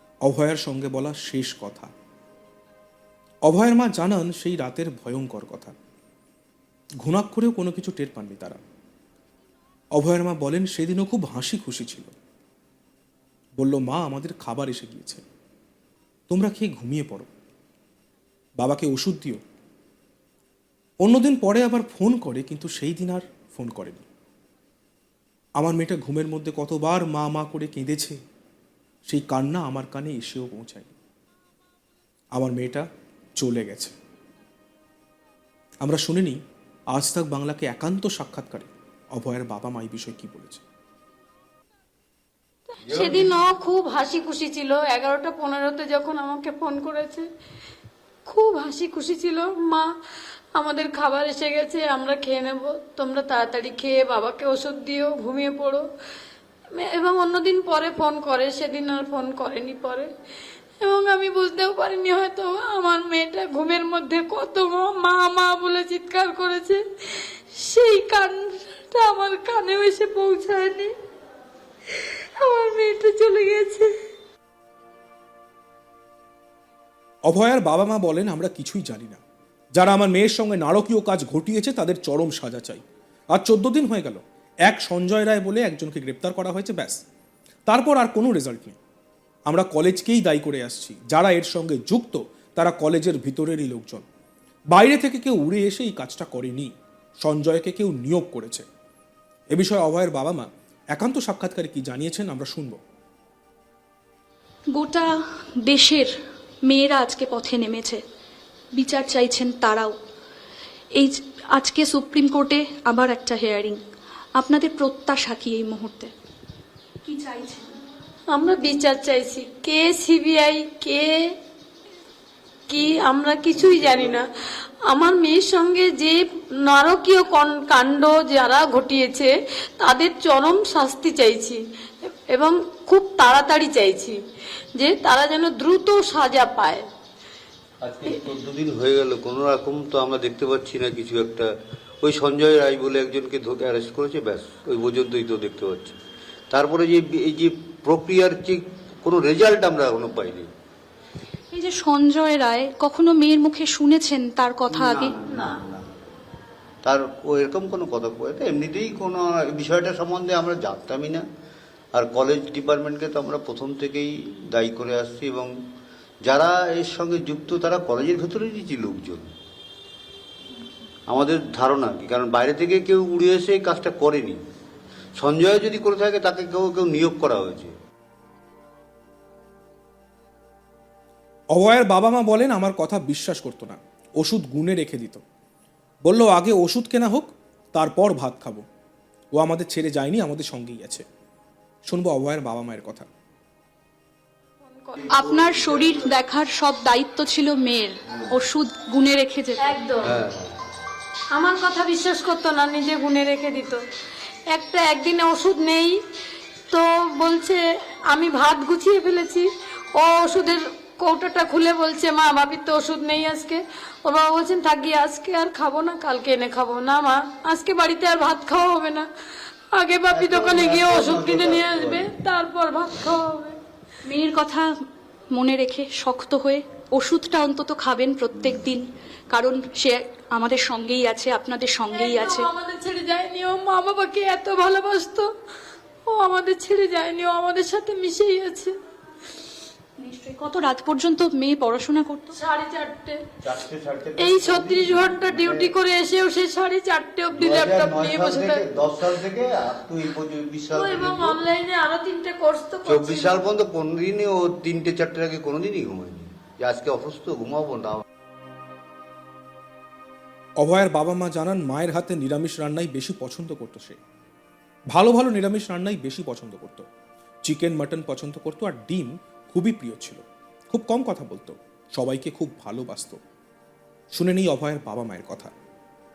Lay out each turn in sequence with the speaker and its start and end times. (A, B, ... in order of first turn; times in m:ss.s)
0:00.2-0:01.9 A
0:03.5-0:05.7 A
0:07.0-0:08.6 A
0:10.0-0:12.2 A
0:13.6-0:15.2 A
0:16.3-0:17.3 A
0:18.6-0:19.4 A
0:21.0-0:24.0 A
0:25.6-0:28.2 A
0:29.1-0:30.9 A
0:32.4-0:32.9 A
0:33.4-0:33.9 A
0:35.8-0:36.4 A
0:36.9-0:40.6 A
0:42.9-0:43.4 B
0:42.9-0:47.3 C
0:48.3-0:49.9 C
0:50.6-0:55.9 C
0:56.7-1:00.1 C
1:00.8-1:10.9 C
1:12.0-1:13.9 C
1:17.3-1:19.2 A
1:19.8-1:22.8 A
1:23.3-1:27.0 A
1:27.7-1:28.8 A
1:29.5-1:34.0 A
1:34.7-1:38.6 A
1:39.5-1:42.8 A
1:44.7-1:46.1 D
1:46.7-1:48.0 D
1:48.7-1:50.0 D
1:51.0-1:53.8 D
1:54.4-1:56.1 D
1:57.0-1:57.8 D
1:58.3-2:01.2 C
2:02.7-2:04.3 C
2:03.5-2:04.2 B
2:04.9-2:14.2 C
2:14.8-2:16.9 C
2:17.8-2:21.5 B
2:22.0-2:26.0 B
2:26.5-2:30.5 B
2:31.5-2:35.1 D
2:34.7-2:35.9 B
2:35.3-2:35.6 C
2:36.8-2:41.2 B
2:41.9-2:45.5 B
2:46.2-2:49.3 B
2:51.1-2:54.4 B
2:55.2-2:57.7 B
3:01.5-3:05.2 A
3:06.0-3:08.6 A
3:09.3-3:11.0 A
3:11.9-3:13.1 A
3:14.6-3:15.3 C
3:15.1-3:16.2 B
3:15.1-3:19.8 D
3:19.6-3:20.2 C
3:20.0-3:20.6 B
3:21.3-3:23.8 C
3:24.5-3:26.0 C
3:26.7-3:39.1 C
3:39.7-3:43.6 C
3:40.1-3:42.1 B
3:44.1-3:44.7 D
3:45.3-3:52.5 D
3:51.9-3:55.3 C
3:56.1-3:58.7 C
4:00.0-4:02.4 D
4:02.3-4:03.2 C
4:03.4-4:05.7 B
4:04.2-4:08.6 C
4:07.3-4:11.4 B
4:10.7-4:13.4 C
4:12.9-4:18.0 B
4:20.6-4:24.0 A
4:24.9-4:26.8 A
4:27.4-4:33.2 A
4:34.1-4:35.5 A